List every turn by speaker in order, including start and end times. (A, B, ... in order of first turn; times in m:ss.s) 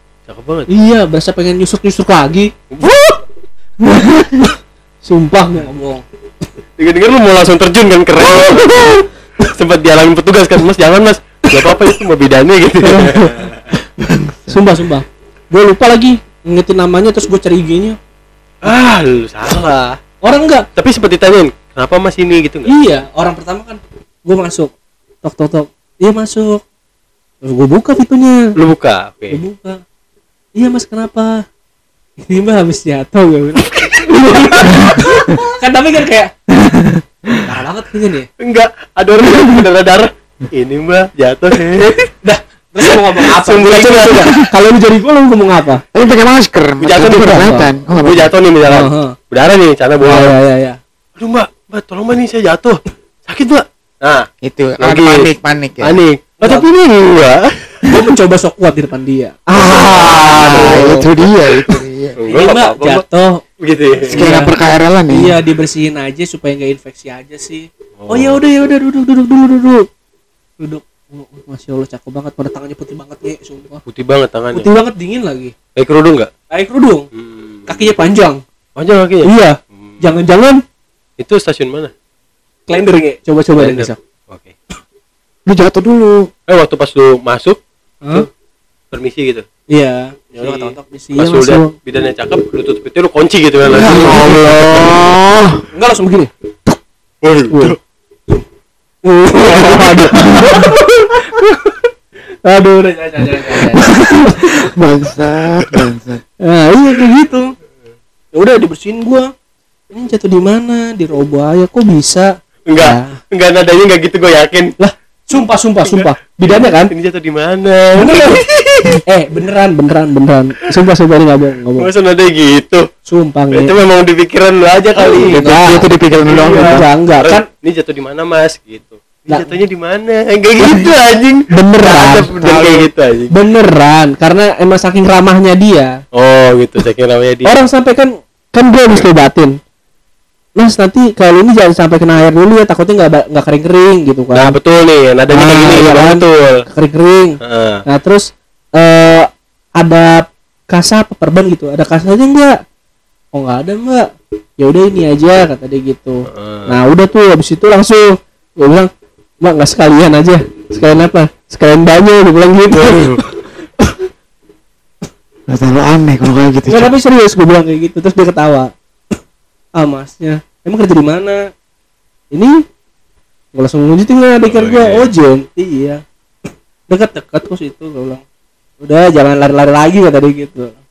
0:00.3-0:00.7 A
0:00.7-0:02.5 B
0:02.7-0:03.2 A
0:04.1-0:04.5 B
0:05.0-0:06.0 B
0:06.8-0:13.6 A
0:08.3-0:09.0 B
0:12.8-0:13.5 B
0:14.0-0:14.6 C
0:14.5-0:18.0 B
0:18.6-0:20.0 A
0:20.2-0:20.7 B
0:20.8-0:22.7 A
0:22.7-0:24.7 B
0:25.2-0:26.6 B
0:27.4-0:28.4 B
0:28.6-0:29.4 A
0:29.3-0:29.8 B
0:30.6-0:31.4 B
0:32.2-0:36.4 B
0:33.8-0:34.6 A
0:36.7-0:37.4 C
0:37.4-0:38.3 B
0:38.4-0:42.0 A
0:42.2-0:45.8 B
0:42.8-0:44.5 A
0:45.9-0:48.3 C
0:46.8-0:50.3 A
0:47.2-0:47.7 B
0:48.6-0:49.2 B
0:50.0-0:50.8 B
0:51.2-0:54.3 A
0:54.4-0:56.0 C
0:54.8-0:55.3 A
0:55.8-0:57.5 A
0:57.8-1:01.1 B
0:59.5-1:02.2 C
0:59.8-1:01.5 A
1:02.2-1:03.0 A
1:02.3-1:03.4 B
1:03.6-1:04.2 A
1:04.1-1:04.5 B
1:04.1-1:05.4 C
1:05.1-1:09.9 B
1:08.0-1:08.4 A
1:10.6-1:13.8 B
1:13.9-1:14.7 A
1:14.5-1:15.6 B
1:15.8-1:16.3 A
1:16.5-1:17.0 B
1:17.2-1:17.9 A
1:17.7-1:18.4 B
1:18.8-1:20.0 A
1:19.2-1:20.6 B
1:21.2-1:21.9 A
1:22.7-1:24.0 B
1:23.6-1:24.5 A
1:25.5-1:26.3 C
1:26.5-1:27.6 A
1:28.9-1:29.4 A
1:29.7-1:31.7 B
1:30.4-1:35.0 A
1:33.6-1:35.6 C
1:33.8-1:35.0 B
1:35.7-1:36.3 B
1:37.2-1:37.8 A
1:37.5-1:37.8 B
1:39.0-1:41.2 B
1:39.4-1:39.9 A
1:40.2-1:40.7 C
1:42.4-1:44.7 B
1:44.2-1:46.2 C
1:46.4-1:47.5 B
1:48.3-1:49.3 B
1:49.9-1:53.2 B
1:52.7-1:54.7 A
1:54.8-1:56.9 B
1:55.8-1:59.0 A
1:58.0-1:58.4 B
1:59.1-2:01.9 B
2:01.8-2:02.8 A
2:03.1-2:03.8 B
2:03.5-2:05.4 A
2:05.1-2:06.9 C
2:05.2-2:05.9 B
2:06.2-2:13.4 A
2:06.5-2:07.5 B
2:09.3-2:09.6 B
2:10.6-2:10.9 B
2:11.5-2:12.3 B
2:12.3-2:12.9 C
2:13.3-2:15.9 B
2:16.1-2:17.6 A
2:17.4-2:19.5 B
2:20.6-2:24.6 B
2:24.3-2:26.6 A
2:25.3-2:27.4 B
2:27.4-2:27.8 A
2:27.9-2:32.6 B
2:33.3-2:34.1 B
2:34.6-2:38.1 B
2:36.3-2:36.8 A
2:38.6-2:38.9 B
2:39.4-2:44.0 B
2:42.8-2:43.2 A
2:45.5-2:47.0 C
2:46.7-2:48.7 B
2:49.8-2:51.4 B
2:53.5-2:56.0 B
2:54.4-2:55.1 A
2:56.9-2:58.2 B
2:58.8-3:00.8 B